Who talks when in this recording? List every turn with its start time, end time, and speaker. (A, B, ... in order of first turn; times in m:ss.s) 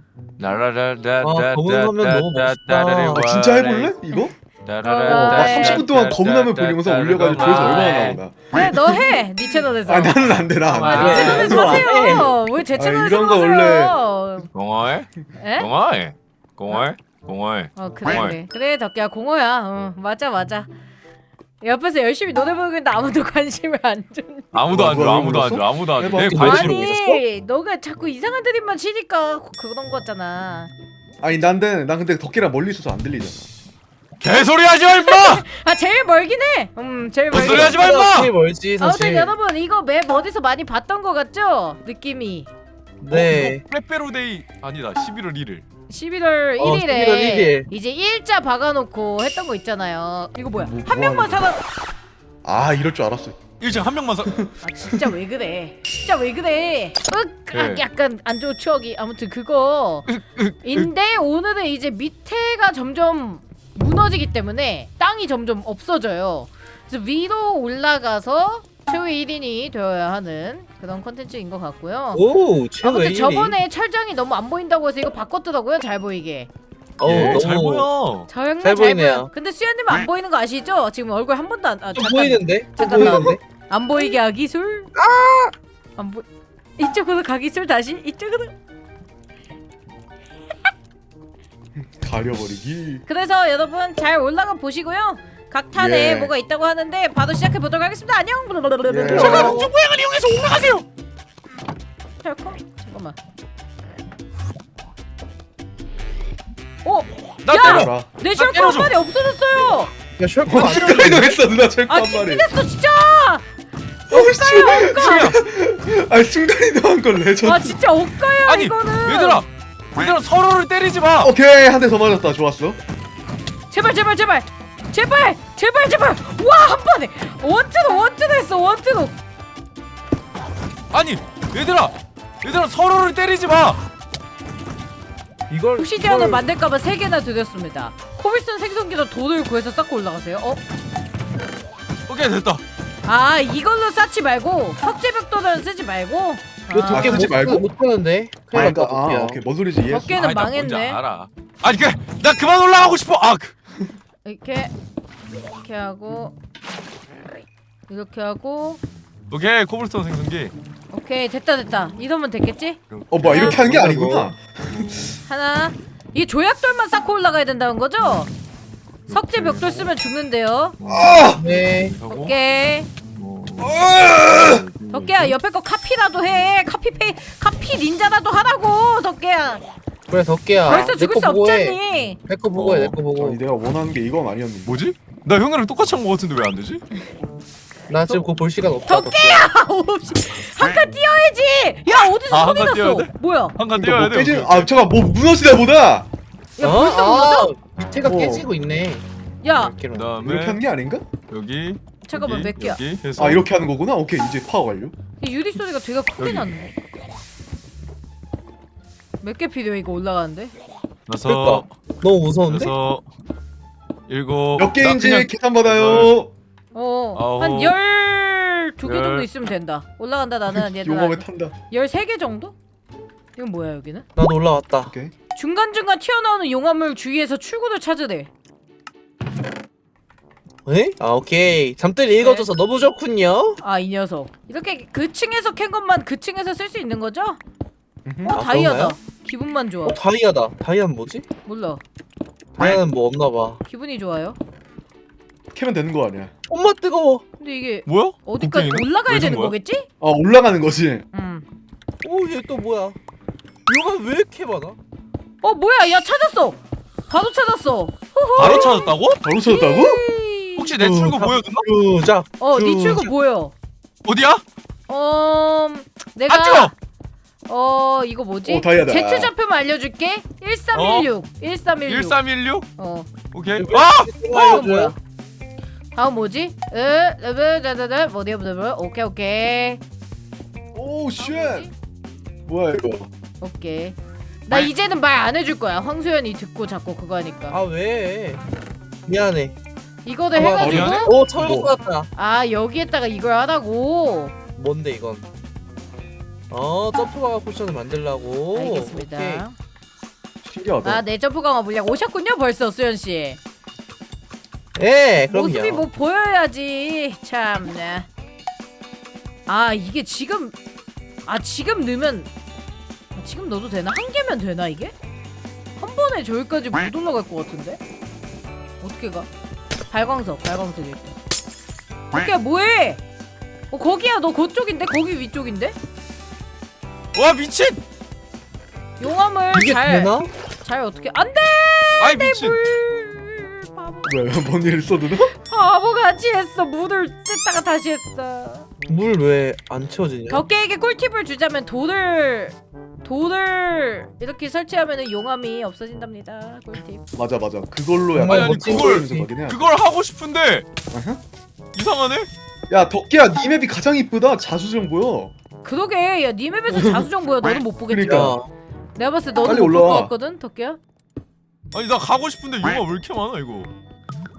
0:00.4-0:04.0 A
0:01.2-0:03.2 B
0:03.1-0:04.4 C
0:04.6-0:08.2 A
0:04.8-0:05.8 D
0:05.1-0:09.1 C
0:08.5-0:14.5 D
0:09.8-0:11.9 C
0:10.7-0:11.8 A
0:10.9-0:12.3 B
0:12.7-0:14.0 C
0:14.5-0:18.4 A
0:15.4-0:15.7 D
0:17.8-0:20.7 D
0:21.6-0:24.5 D
0:24.5-0:26.9 A
0:24.7-0:26.9 C
0:26.2-0:27.2 B
0:26.3-0:30.7 D
0:31.2-0:33.4 C
0:34.2-0:35.4 A
0:34.9-0:37.9 D
0:37.3-0:38.3 A
0:37.3-0:39.3 B
0:38.8-0:42.5 D
0:43.0-0:43.6 B
0:43.1-0:45.6 A
0:45.9-0:51.6 D
0:46.6-0:47.7 B
0:50.6-0:51.4 C
0:52.4-0:53.4 C
0:53.6-0:54.5 A
0:54.3-0:55.1 C
0:54.6-1:00.1 D
0:57.5-0:57.8 A
1:00.1-1:00.9 A
1:00.6-1:12.2 D
1:12.1-1:13.6 B
1:12.8-1:16.5 D
1:17.0-1:17.9 B
1:17.0-1:18.3 A
1:18.3-1:24.9 D
1:18.6-1:19.3 B
1:21.9-1:23.4 B
1:25.0-1:25.5 B
1:26.0-1:26.2 D
1:26.8-1:28.5 D
1:31.8-1:33.0 C
1:33.1-1:39.6 D
1:35.8-1:36.3 C
1:38.9-1:39.7 C
1:39.1-1:40.8 A
1:39.1-1:39.7 B
1:42.2-1:43.2 D
1:46.8-1:49.9 D
1:47.4-1:48.9 A
1:47.6-1:48.1 C
1:50.2-1:51.4 B
1:50.5-1:52.5 C
1:51.9-1:53.4 D
1:54.1-1:57.8 C
1:54.1-1:55.4 D
1:54.8-1:55.4 A
1:57.4-1:59.4 D
1:58.4-2:01.3 A
2:01.2-2:02.8 C
2:03.7-2:09.1 D
2:10.9-2:13.8 A
2:15.5-2:16.5 B
2:15.8-2:20.6 D
2:22.1-2:22.6 A
2:23.0-2:27.3 D
2:26.7-2:29.4 B
2:26.9-2:27.7 C
2:28.5-2:30.2 C
2:29.9-2:31.0 D
2:30.1-2:33.5 A
2:34.2-2:34.7 D
2:35.6-2:36.3 D
2:37.9-2:38.8 D
2:39.3-2:40.5 A
2:40.9-2:42.8 D
2:42.9-2:43.8 A
2:43.1-2:45.1 C
2:43.4-2:44.3 B
2:45.3-2:48.3 D
2:49.1-2:49.9 A
2:49.1-2:50.8 D
2:50.8-2:52.4 A
2:50.8-2:51.4 C
2:51.3-2:52.0 B
2:52.1-2:52.9 D
2:53.2-2:55.4 A
2:53.6-2:54.6 C
2:54.9-2:59.6 D
3:00.1-3:03.4 B
3:00.6-3:02.2 D
3:02.6-3:03.0 A
3:03.2-3:04.7 C
3:04.7-3:06.8 A
3:07.9-3:09.5 B
3:08.9-3:13.6 D
3:12.2-3:14.7 A
3:13.8-3:16.1 C
3:16.6-3:17.5 D
3:16.6-3:20.1 B
3:18.0-3:18.5 C
3:19.4-3:19.8 D
3:19.9-3:20.6 A
3:20.2-3:21.0 C
3:21.3-3:23.5 A
3:22.0-3:22.8 D
3:23.2-3:24.9 C
3:25.2-3:26.7 D
3:26.2-3:26.5 A
3:29.2-3:30.5 D
3:31.1-3:31.7 A
3:31.3-3:32.7 B
3:32.5-3:33.0 A
3:34.1-3:36.1 A
3:34.6-3:36.3 C
3:36.7-3:42.6 D
3:37.2-3:37.8 A
3:38.8-3:39.3 A
3:40.5-3:41.5 C
3:43.4-3:44.1 D
3:44.2-3:44.9 B
3:44.8-3:45.1 C
3:45.3-3:48.3 D
3:50.7-3:53.6 B
3:52.2-3:52.5 D
3:53.6-3:57.4 D
3:58.0-3:58.4 C
3:58.2-4:00.0 D
3:58.3-3:59.0 B
3:59.8-4:01.3 B
4:01.4-4:01.8 D
4:02.6-4:03.6 B
4:03.7-4:04.4 D
4:05.5-4:06.3 C
4:06.5-4:07.2 B
4:07.4-4:09.9 D
4:07.9-4:09.6 A
4:10.0-4:11.0 C
4:11.1-4:11.4 D
4:12.0-4:13.0 B
4:13.7-4:14.8 B
4:15.4-4:20.7 D
4:18.4-4:19.2 A
4:19.2-4:20.0 C
4:20.6-4:21.7 A
4:20.8-4:23.1 B
4:22.4-4:23.5 D
4:24.0-4:24.4 A
4:24.9-4:26.7 D
4:26.3-4:26.7 A
4:27.5-4:32.2 D
4:28.4-4:29.3 C
4:30.7-4:31.1 A
4:31.8-4:32.7 A
4:32.8-4:33.1 D
4:33.3-4:34.6 A
4:33.6-4:35.0 B
4:34.3-4:35.0 D
4:35.9-4:39.8 D
4:40.8-4:41.7 C
4:41.2-4:41.7 D
4:42.5-4:43.1 C
4:43.4-4:47.6 D
4:47.5-4:48.4 B
4:49.1-4:49.6 B
4:50.0-4:51.1 D
4:50.3-4:52.1 B
4:50.6-4:51.2 A
4:50.6-4:51.7 C
4:52.2-4:54.4 D
4:54.6-4:55.3 B
4:56.5-4:59.4 B
4:58.5-4:59.6 D
5:00.4-5:01.0 C
5:00.8-5:03.4 D
5:04.8-5:05.9 B
5:05.3-5:08.1 D
5:09.5-5:10.6 D
5:11.3-5:12.3 D
5:13.1-5:14.9 D
5:15.8-5:17.8 D
5:18.8-5:19.3 D
5:19.9-5:21.2 D
5:22.1-5:23.0 D
5:23.7-5:25.8 D
5:27.2-5:27.8 A
5:29.0-5:34.1 D
5:29.5-5:30.3 B
5:32.0-5:32.6 A
5:34.0-5:35.3 C
5:35.3-5:38.7 D
5:38.9-5:40.4 B
5:40.3-5:47.0 D
5:47.2-5:49.6 C
5:48.1-5:49.3 B
5:48.2-5:50.7 A
5:50.9-5:51.2 C
5:51.7-5:52.3 A
5:52.7-5:55.3 C
5:55.6-5:58.4 D
5:56.7-5:57.1 C
5:57.9-5:58.4 C
5:58.0-5:58.5 B
5:59.0-6:00.8 D
5:59.4-6:00.1 C
6:01.7-6:03.7 A